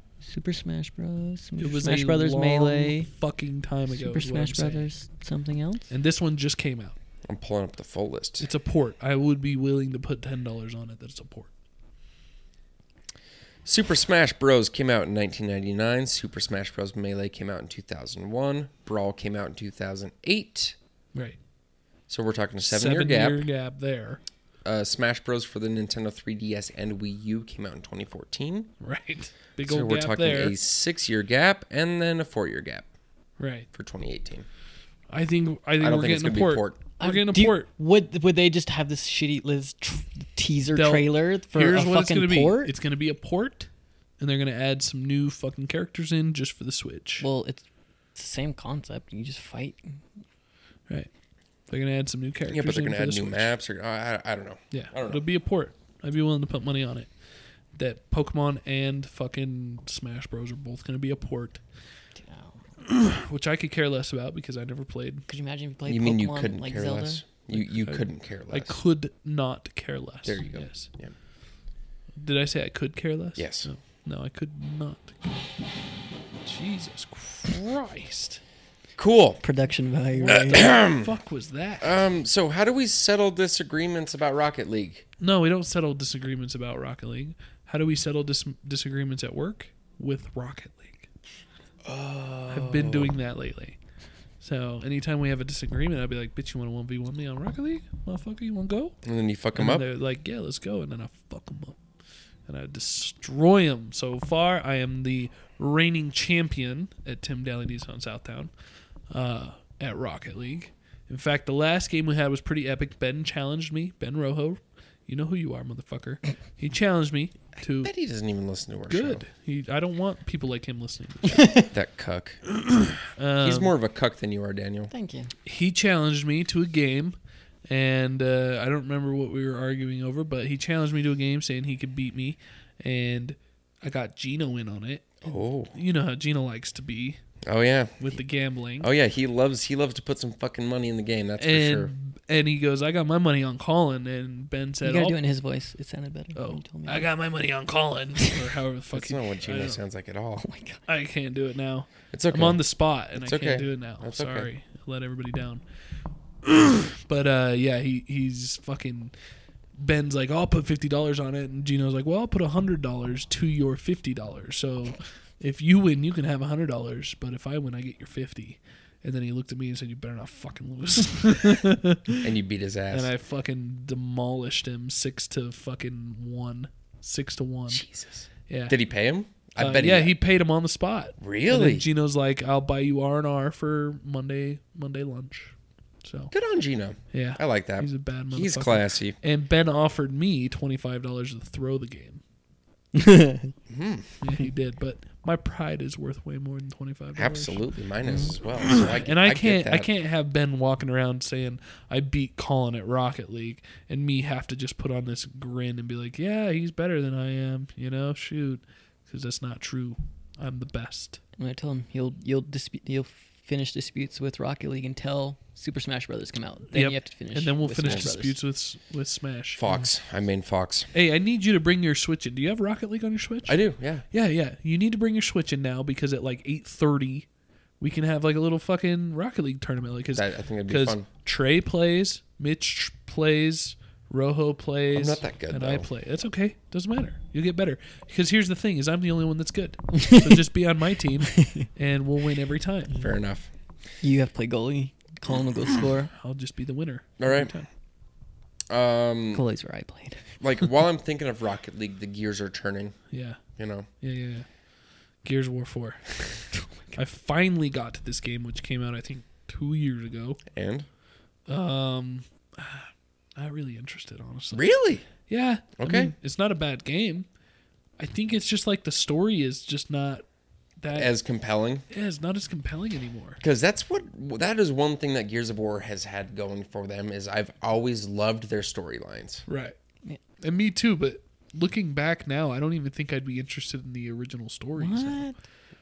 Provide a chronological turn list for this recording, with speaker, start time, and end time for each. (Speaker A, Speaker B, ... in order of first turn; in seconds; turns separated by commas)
Speaker A: 0.2-3.1, Speaker B: 1.6-4.9, Speaker A: 3.9-5.9, Speaker B: 5.9-7.0, Speaker C: 7.3-8.5, Speaker B: 8.4-11.5, Speaker C: 13.6-20.8, Speaker C: 22.1-23.4, Speaker B: 22.6-24.2, Speaker C: 24.6-28.7, Speaker B: 28.8-30.6, Speaker C: 29.6-32.9, Speaker B: 33.4-33.7, Speaker C: 33.7-34.5, Speaker B: 35.1-37.7, Speaker C: 35.8-36.8, Speaker A: 37.0-42.7, Speaker B: 40.7-47.3, Speaker A: 47.2-50.0, Speaker B: 51.7-53.5, Speaker C: 52.5-55.2, Speaker B: 54.7-57.1, Speaker B: 57.8-61.6, Speaker A: 62.2-62.6, Speaker B: 62.8-65.2, Speaker A: 65.3-67.2, Speaker C: 65.9-68.8, Speaker B: 67.5-70.9, Speaker C: 70.2-71.1, Speaker B: 72.2-75.5, Speaker C: 73.4-73.7, Speaker B: 76.4-78.4, Speaker C: 79.0-79.4, Speaker A: 79.4-80.7, Speaker B: 80.2-82.0, Speaker C: 80.3-81.1, Speaker C: 81.8-85.0, Speaker B: 85.2-91.1, Speaker C: 91.8-93.2, Speaker B: 92.5-93.8, Speaker B: 94.4-99.0, Speaker C: 99.0-99.9, Speaker B: 99.5-101.8, Speaker B: 102.5-108.5, Speaker B: 109.1-117.9, Speaker C: 117.6-119.2, Speaker B: 118.9-121.6, Speaker C: 121.7-122.4, Speaker B: 122.6-123.7, Speaker C: 123.4-124.9, Speaker A: 124.9-125.3, Speaker B: 125.5-127.2, Speaker B: 127.7-137.2, Speaker C: 135.2-135.7, Speaker C: 137.4-138.0, Speaker B: 138.0-138.9, Speaker C: 138.8-141.9, Speaker B: 141.4-145.2, Speaker A: 144.8-147.1, Speaker B: 146.3-149.8, Speaker C: 148.9-150.4, Speaker A: 150.4-150.8, Speaker B: 150.9-155.6, Speaker C: 152.1-152.6, Speaker C: 153.1-154.5, Speaker B: 156.4-159.1, Speaker B: 159.8-172.3, Speaker C: 172.2-173.1, Speaker B: 172.9-177.8, Speaker C: 177.7-180.1, Speaker B: 178.5-178.8, Speaker B: 179.6-186.3, Speaker C: 181.2-181.9, Speaker C: 186.3-189.2, Speaker B: 187.1-192.2, Speaker A: 192.9-193.5, Speaker C: 193.7-194.1, Speaker B: 194.2-197.7, Speaker C: 197.2-199.9, Speaker A: 198.1-198.4, Speaker B: 198.6-211.2, Speaker A: 211.4-218.4, Speaker B: 216.7-219.6, Speaker C: 219.6-220.9, Speaker B: 220.9-227.3, Speaker C: 223.4-224.1, Speaker B: 227.8-242.9, Speaker C: 230.1-231.1, Speaker C: 234.9-235.9, Speaker A: 240.0-240.3, Speaker A: 241.3-241.7, Speaker C: 242.9-243.5, Speaker A: 244.0-246.1, Speaker B: 246.2-247.7, Speaker C: 247.2-247.5, Speaker C: 248.7-249.4, Speaker A: 249.3-250.4, Speaker C: 250.4-252.9, Speaker B: 253.1-253.4, Speaker C: 253.6-253.9, Speaker B: 254.0-254.4, Speaker B: 255.2-260.4, Speaker C: 260.5-260.9, Speaker B: 261.5-264.7, Speaker C: 264.5-265.1, Speaker B: 265.3-267.3, Speaker C: 265.8-266.1, Speaker B: 268.0-270.2, Speaker B: 270.8-271.1, Speaker C: 270.9-271.8, Speaker B: 271.9-273.4, Speaker C: 273.4-279.4, Speaker B: 279.5-279.7, Speaker B: 280.4-285.2, Speaker A: 284.8-285.4